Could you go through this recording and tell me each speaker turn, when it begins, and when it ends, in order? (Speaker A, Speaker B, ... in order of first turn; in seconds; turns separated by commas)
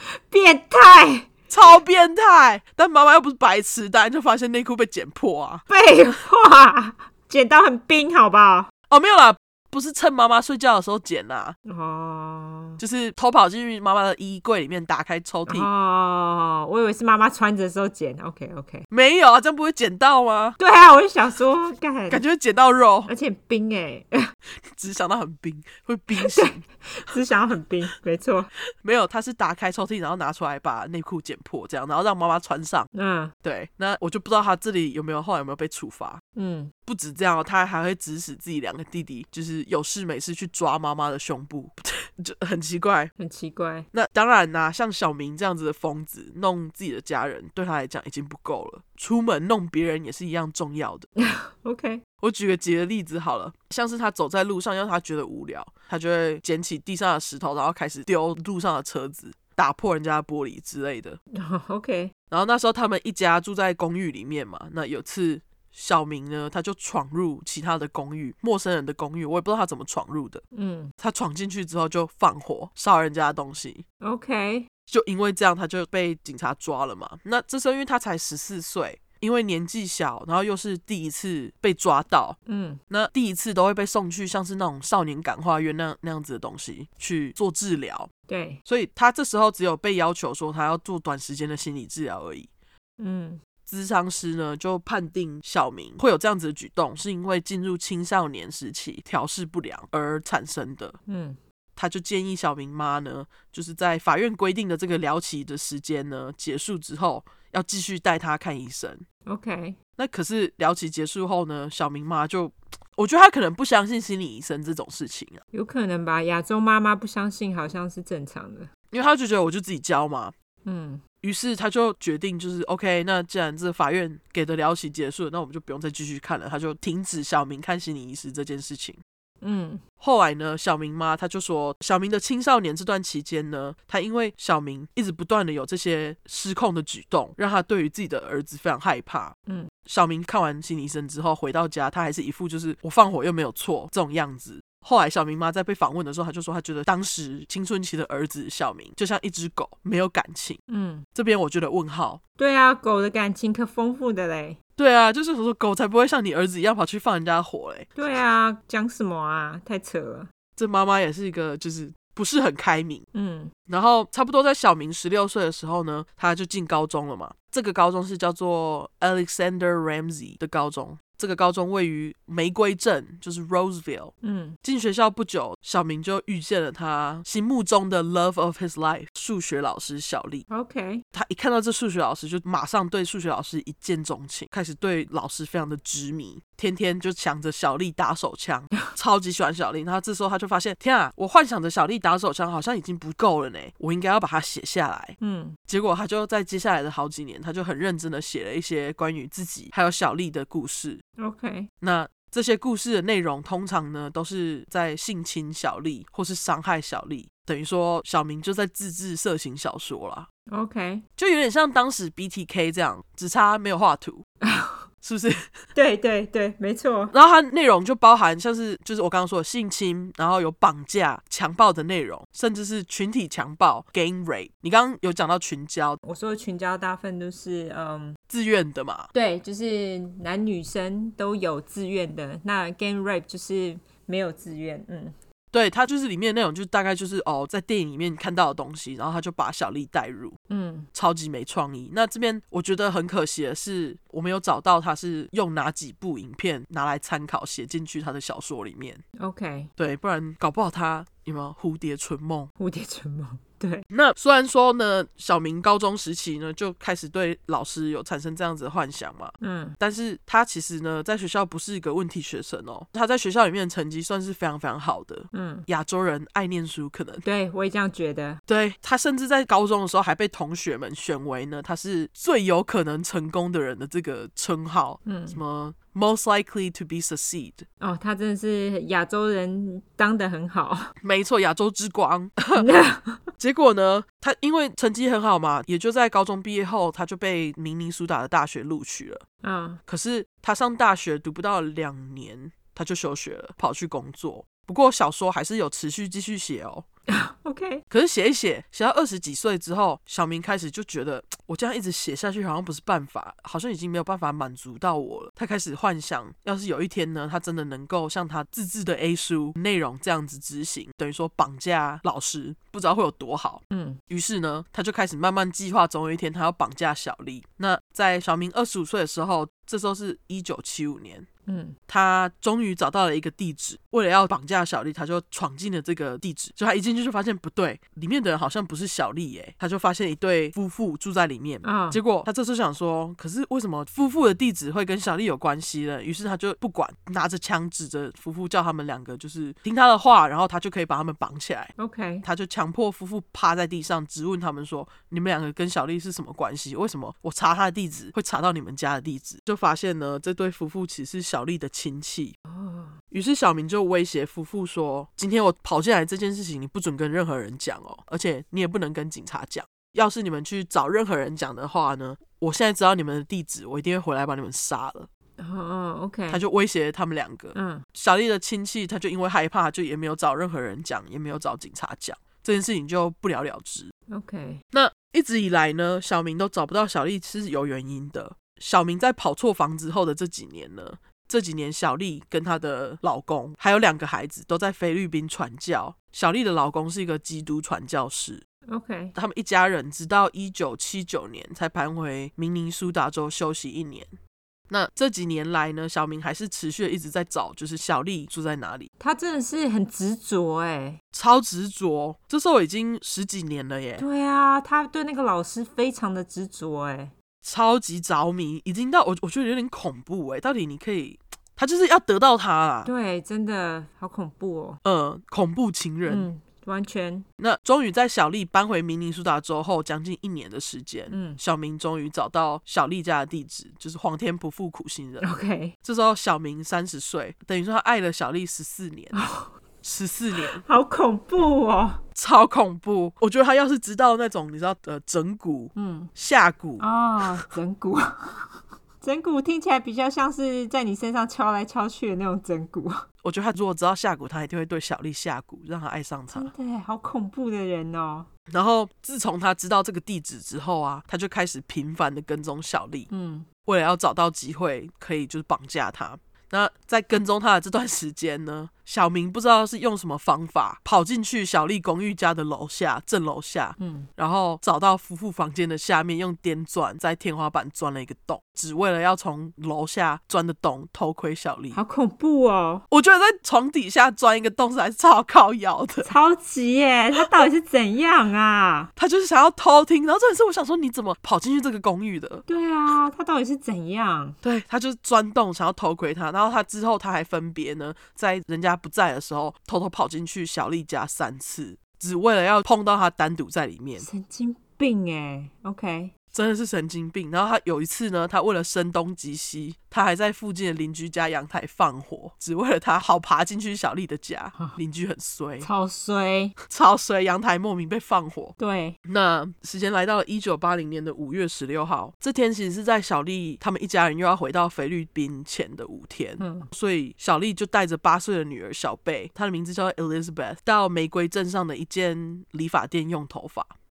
Speaker A: 0.1-1.3, Speaker B: 1.5-5.6, Speaker A: 5.7-8.7, Speaker B: 8.9-11.6, Speaker A: 11.7-12.8, Speaker B: 12.8-15.7, Speaker A: 15.5-18.9, Speaker B: 18.9-20.6, Speaker A: 20.6-22.2, Speaker B: 22.1-23.1, Speaker A: 23.1-24.3, Speaker B: 24.6-26.6, Speaker A: 26.1-28.5, Speaker B: 28.8-32.9, Speaker A: 32.9-33.3, Speaker B: 33.4-36.2, Speaker A: 36.3-36.7, Speaker B: 36.9-43.1, Speaker A: 43.2-43.9, Speaker B: 43.9-51.1, Speaker A: 51.2-52.0, Speaker B: 52.2-61.2, Speaker A: 61.3-62.1, Speaker B: 62.3-70.4, Speaker A: 70.5-70.9, Speaker B: 71.0-73.8, Speaker A: 74.0-74.7, Speaker B: 74.9-82.4, Speaker A: 82.5-82.8, Speaker B: 82.9-88.1, Speaker A: 88.3-88.6, Speaker B: 88.7-92.5, Speaker A: 93.0-93.4, Speaker B: 93.7-101.0, Speaker A: 101.1-101.4, Speaker B: 101.8-109.0, Speaker A: 109.3-109.8, Speaker B: 110.0-115.4, Speaker A: 115.5-118.7, Speaker B: 118.9-120.3, Speaker A: 120.6-121.0, Speaker B: 121.2-129.0, Speaker A: 129.4-129.8, Speaker B: 130.0-139.3, Speaker B: 139.8-150.6, Speaker A: 150.7-151.1, Speaker B: 151.1-152.2, Speaker A: 152.4-154.6, Speaker B: 154.8-157.9, Speaker A: 157.9-160.3, Speaker B: 160.6-163.0, Speaker A: 163.1-163.5, Speaker B: 163.7-174.1, Speaker A: 174.2-174.6, Speaker B: 174.6-180.4, Speaker A: 180.5-181.0, Speaker B: 181.1-195.1, Speaker A: 195.2-195.6, Speaker B: 195.7-201.0, Speaker A: 201.2-201.7, Speaker B: 201.8-210.3, Speaker A: 210.5-211.0, Speaker B: 211.2-214.2, Speaker A: 214.4-214.8, Speaker B: 215.0-215.4, Speaker A: 215.7-217.1, Speaker B: 217.1-226.0, Speaker A: 226.0-228.2, Speaker B: 228.3-229.1, Speaker A: 229.1-235.1, Speaker B: 235.5-240.4, Speaker A: 240.5-240.9, Speaker B: 240.9-249.0, Speaker A: 249.2-249.7, Speaker B: 249.8-252.5, Speaker A: 252.6-253.8, Speaker B: 253.9-267.2, Speaker A: 259.4-259.8, Speaker A: 265.3-265.7, Speaker A: 267.2-268.4, Speaker B: 268.5-277.6, Speaker A: 275.0-275.4, Speaker A: 277.8-280.9, Speaker B: 281.0-282.7, Speaker A: 282.6-283.3, Speaker B: 283.4-289.2, Speaker A: 289.4-289.8, Speaker B: 289.9-296.9, Speaker A: 297.1-297.8, Speaker B: 297.9-321.3, Speaker A: 313.7-314.0, Speaker A: 321.4-321.8, Speaker B: 321.9-341.7, Speaker A: 331.6-332.0, Speaker A: 341.8-342.2, Speaker B: 342.2-352.3, Speaker A: 352.5-352.9, Speaker B: 353.1-365.1, Speaker A: 365.4-366.4, Speaker B: 366.3-373.9, Speaker A: 367.5-367.9, Speaker A: 374.1-374.6, Speaker B: 374.7-388.4, Speaker A: 388.7-389.1, Speaker B: 389.1-394.1, Speaker B: 394.7-398.9, Speaker A: 399.0-401.0, Speaker B: 401.1-404.0, Speaker A: 404.0-407.1, Speaker B: 407.4-412.9, Speaker A: 412.8-414.8, Speaker B: 414.8-416.3, Speaker A: 416.1-417.2, Speaker B: 417.4-425.3, Speaker A: 421.1-421.4, Speaker A: 425.2-425.7, Speaker B: 425.8-429.2, Speaker A: 429.1-429.5, Speaker B: 429.8-430.6, Speaker A: 430.4-432.0, Speaker B: 432.1-436.9, Speaker A: 435.7-436.1, Speaker A: 436.8-443.0, Speaker B: 443.2-446.5, Speaker A: 446.3-448.3, Speaker B: 448.5-453.1, Speaker A: 453.1-453.5, Speaker B: 453.6-471.8, Speaker A: 463.8-464.1, Speaker A: 471.7-472.8, Speaker B: 472.9-476.1, Speaker A: 476.0-478.9, Speaker B: 478.9-482.4, Speaker A: 482.5-484.4, Speaker B: 484.4-494.1, Speaker A: 494.0-496.1, Speaker B: 496.3-505.7, Speaker A: 505.6-506.6, Speaker B: 506.6-508.6, Speaker A: 508.6-509.0, Speaker B: 509.1-523.7, Speaker A: 516.4-516.7